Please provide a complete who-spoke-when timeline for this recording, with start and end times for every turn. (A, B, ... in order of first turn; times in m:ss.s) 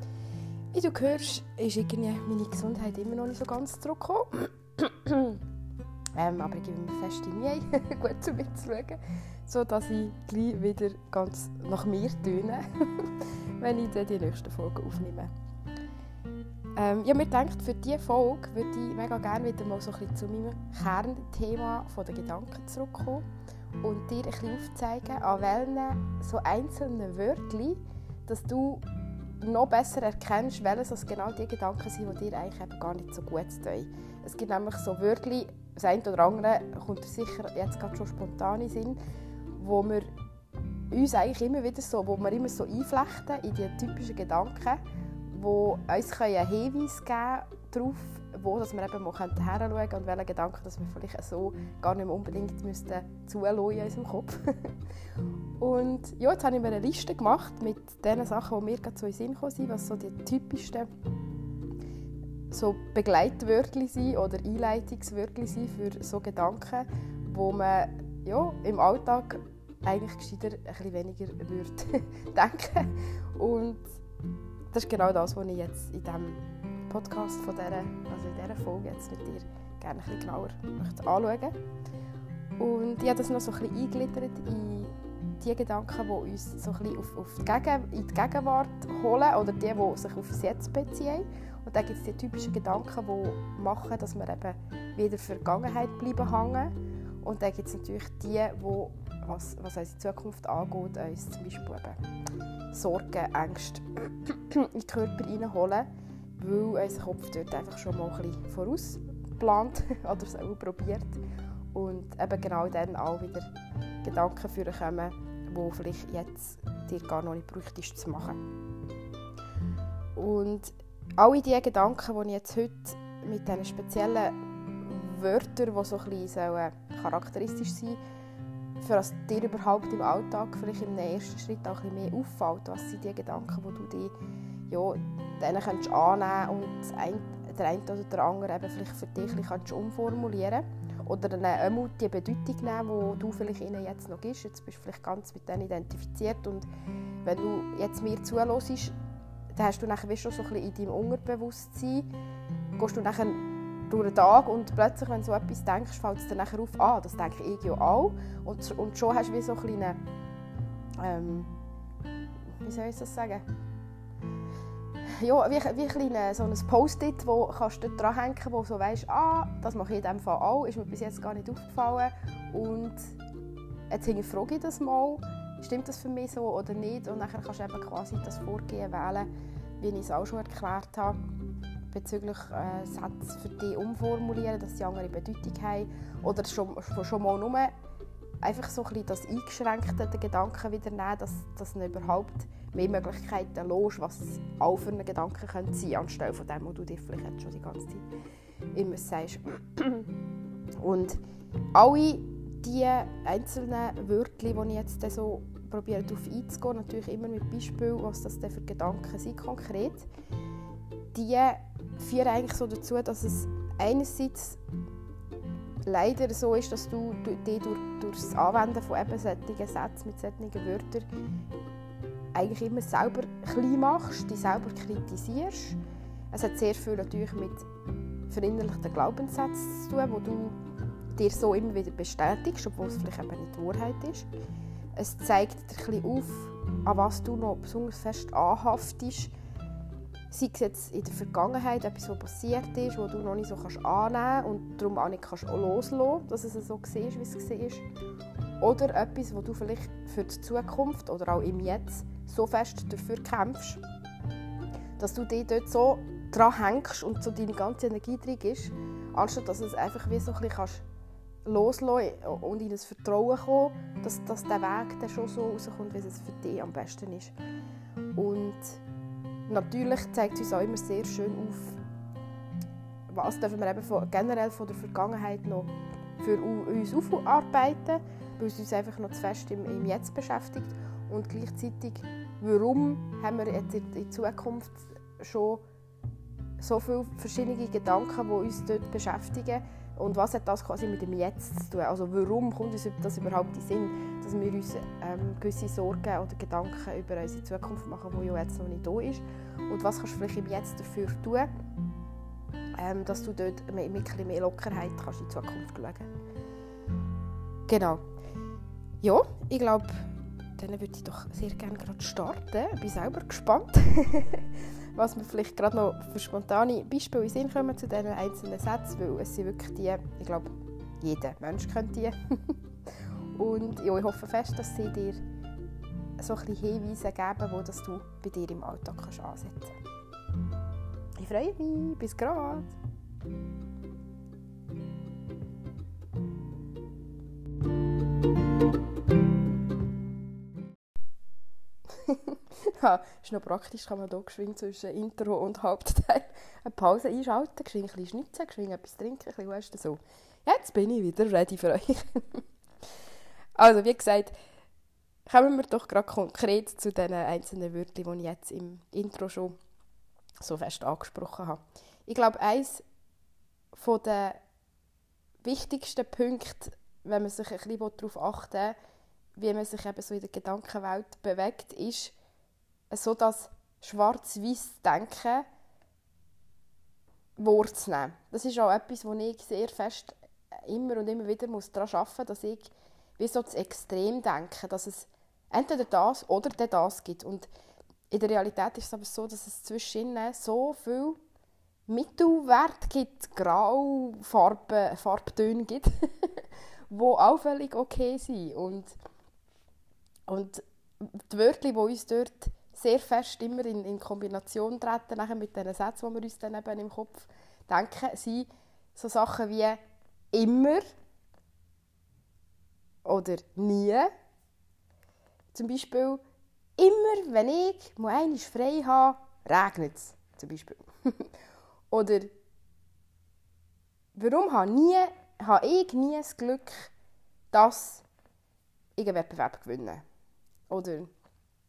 0:00.7-0:05.4 A
0:06.2-0:15.3 A
0:16.8-0:23.2 A
0:23.8-0:28.8 A
0:29.4-0:39.0 A
0:39.6-0:40.1 A
0:40.9-0:54.7 A
0:55.6-1:00.9 A
1:02.5-1:14.0 A
1:14.7-1:21.6 A
1:22.6-1:42.0 A
1:42.7-1:51.2 A
1:51.7-1:53.5 A
1:54.0-1:58.4 A
2:00.2-2:08.0 A
2:08.8-2:14.1 A
2:14.7-2:26.7 A
2:27.2-2:28.9 A
2:29.5-2:32.1 A
2:32.8-2:40.0 A
2:41.0-2:41.5 A
2:42.6-2:43.4 A
2:45.2-2:53.1 A
2:53.9-2:59.3 A
2:59.8-3:01.2 A
3:01.9-3:07.7 A
3:08.4-3:18.1 A
3:18.7-3:20.1 A
3:20.8-3:21.2 A
3:21.7-3:30.1 A
3:31.1-3:34.6 A
3:35.8-3:41.0 A
3:42.3-3:45.8 A
3:46.3-3:47.7 A
3:48.3-3:50.6 A
3:51.1-3:54.3 A
3:55.0-3:59.3 A
4:00.3-4:07.8 A
4:08.6-4:13.8 A
4:15.0-4:20.8 A
4:21.4-4:27.3 A
4:28.1-4:28.8 A
4:29.5-4:31.8 A
4:33.1-4:45.6 A
4:46.6-5:01.5 A
5:02.8-5:06.1 A
5:07.7-5:08.0 A
5:09.0-5:10.0 A
5:10.6-5:22.6 A
5:23.3-5:25.2 A
5:26.2-5:29.8 A
5:31.2-5:32.8 A
5:41.9-5:52.4 A
5:53.6-5:54.4 A
5:55.2-5:59.6 A
6:00.4-6:02.8 A
6:03.7-6:04.4 A
6:05.4-6:08.8 A
6:09.4-6:12.1 A
6:12.9-6:15.4 A
6:17.4-6:27.5 A
6:28.1-6:31.2 A
6:31.9-6:38.9 A
6:40.3-6:49.8 A
6:50.3-6:50.8 A
6:53.0-6:54.1 A
6:55.5-6:56.2 A
6:56.8-7:01.3 A
7:01.9-7:02.3 A
7:04.1-7:06.9 A
7:07.5-7:08.0 A
7:09.0-7:10.0 A
7:10.7-7:11.1 A